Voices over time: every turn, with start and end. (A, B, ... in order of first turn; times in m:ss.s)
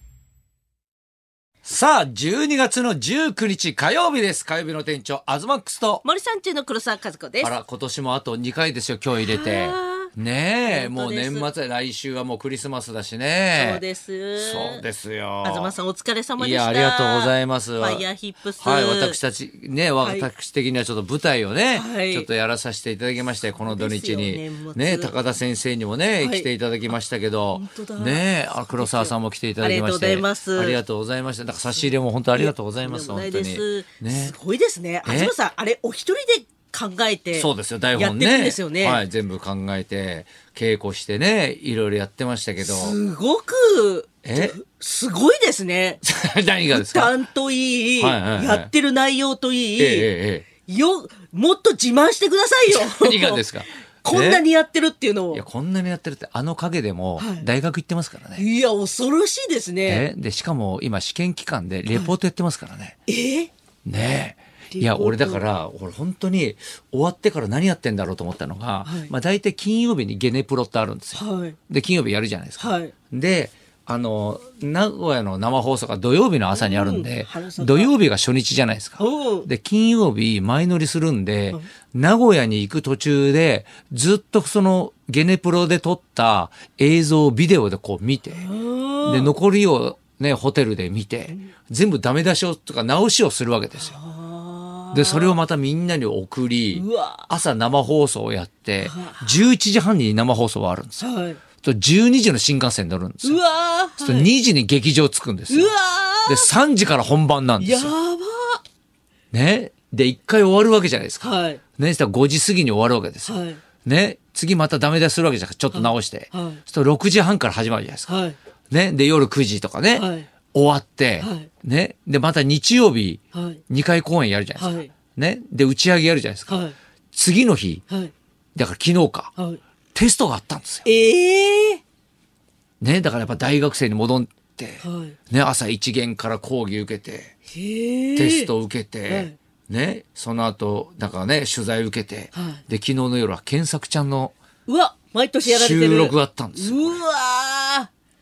0:01.6-0:06.0 A
0:06.0-0:07.5 B
0:07.4-0:13.8 A
0:09.2-0:10.1 B
0:10.7-0:11.5 B
0:13.6-0:14.8 B
0:14.4-0:15.7 A
0:15.4-0:19.2 B
0:16.4-0:18.0 A
0:18.6-0:34.4 A
0:20.0-0:20.3 B
0:21.7-0:22.3 B
0:23.6-0:25.2 B
0:26.2-0:26.5 B
0:27.5-0:30.8 B
0:32.3-0:39.0 B
0:35.0-0:35.3 A
0:37.3-0:43.0 A
0:42.6-0:46.0 B
0:44.2-0:44.6 A
0:46.0-0:47.2 A
0:46.7-0:50.1 B
0:48.0-0:48.7 A
0:49.8-0:50.5 A
0:50.6-0:53.5 B
0:52.7-0:54.5 A
0:54.0-0:55.4 B
0:55.3-0:58.4 A
0:57.2-0:57.5 B
0:58.4-1:00.0 B
0:59.9-1:03.0 A
1:03.1-1:03.5 B
1:03.8-1:28.5 A
1:04.7-1:05.4 B
1:08.9-1:09.1 B
1:11.2-1:11.6 B
1:12.6-1:12.9 B
1:16.5-1:17.9 B
1:19.0-1:19.5 B
1:28.3-1:29.3 B
1:29.0-1:34.0 A
1:33.8-1:35.4 B
1:34.9-1:41.1 A
1:36.7-1:37.3 B
1:38.8-1:39.4 B
1:41.0-1:41.4 B
1:41.6-1:43.4 A
1:43.2-1:44.3 B
1:44.0-1:45.7 A
1:45.5-1:46.5 B
1:46.3-1:47.9 A
1:47.6-1:48.6 B
1:49.3-1:58.1 A
1:51.2-1:51.6 B
1:53.2-1:53.6 B
1:55.7-1:56.6 B
1:58.1-1:58.4 B
1:58.7-2:07.8 A
1:59.9-2:00.3 B
2:01.2-2:01.5 B
2:03.3-2:03.6 B
2:04.6-2:04.9 B
2:06.5-2:06.8 B
2:08.6-2:09.3 A
2:10.0-2:10.8 A
2:10.8-2:11.8 B
2:12.8-2:17.3 A
2:14.8-2:15.2 B
2:17.5-2:18.5 B
2:18.2-2:24.4 A
2:19.1-2:19.4 B
2:22.3-2:22.6 B
2:24.7-2:27.9 B
2:25.4-2:27.0 A